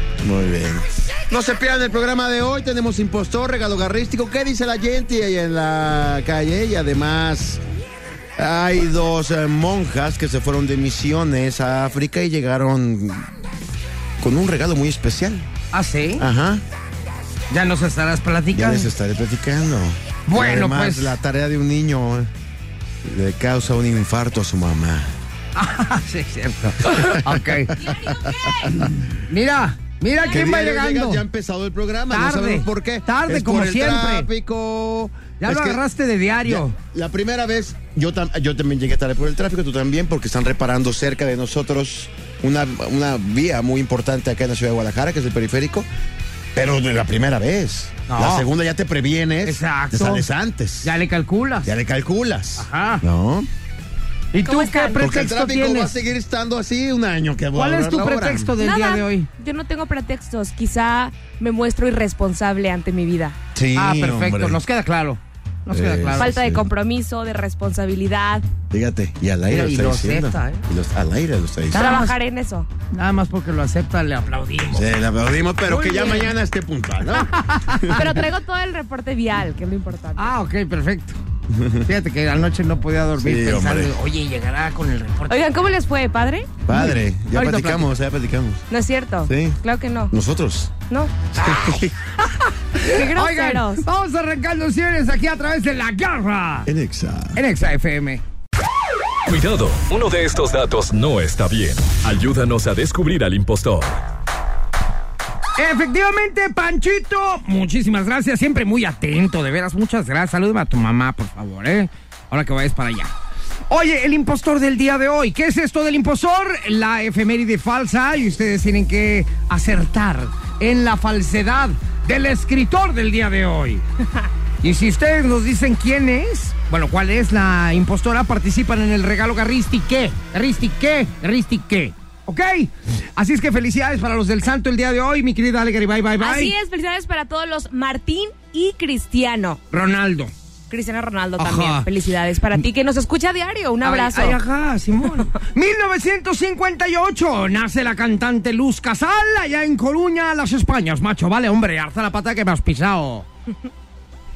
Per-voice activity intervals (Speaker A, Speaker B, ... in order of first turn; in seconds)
Speaker A: 0.2-7.6, 8.4-13.3, 14.2-15.5, 16.2-16.6, 18.5-22.3, 23.0-25.1, 26.9-29.0, 30.3-35.8, 36.4-45.9, 46.5-50.9, 51.6-53.5, 55.0-58.5, 63.5-64.6, 65.7-66.7, 68.7-72.0, 74.7-78.1, 81.5-81.9, 83.2-83.9, 86.7-88.6, 89.2-89.6, 90.1-90.7, 91.3-91.9, 96.7-97.4
Speaker B: 15.7-16.2, 17.5-18.9, 20.3-21.2, 25.6-28.0, 29.1-31.2, 32.1-34.3, 35.3-36.7, 48.1-48.5, 49.4-50.3, 50.8-51.7, 52.6-53.0, 54.3-55.9, 57.5-59.3, 63.7-66.3, 69.5-70.6, 71.7-72.1, 72.9-74.8, 75.7-76.3, 77.1-78.1, 80.2-81.2, 81.8-85.4, 86.7-87.9, 92.3-96.7, 97.3-98.2, 105.6-113.1, 113.7-123.8, 124.6-136.5, 139.7-140.3, 141.4-141.9, 143.8-153.2
Speaker C: 54.4-55.1, 58.6-63.4, 66.2-68.4, 71.7-72.7, 78.0-80.2, 85.3-86.5, 88.7-90.1, 90.8-91.2, 92.8-93.8, 136.2-139.6, 140.7-144.4
Speaker D: 99.2-104.0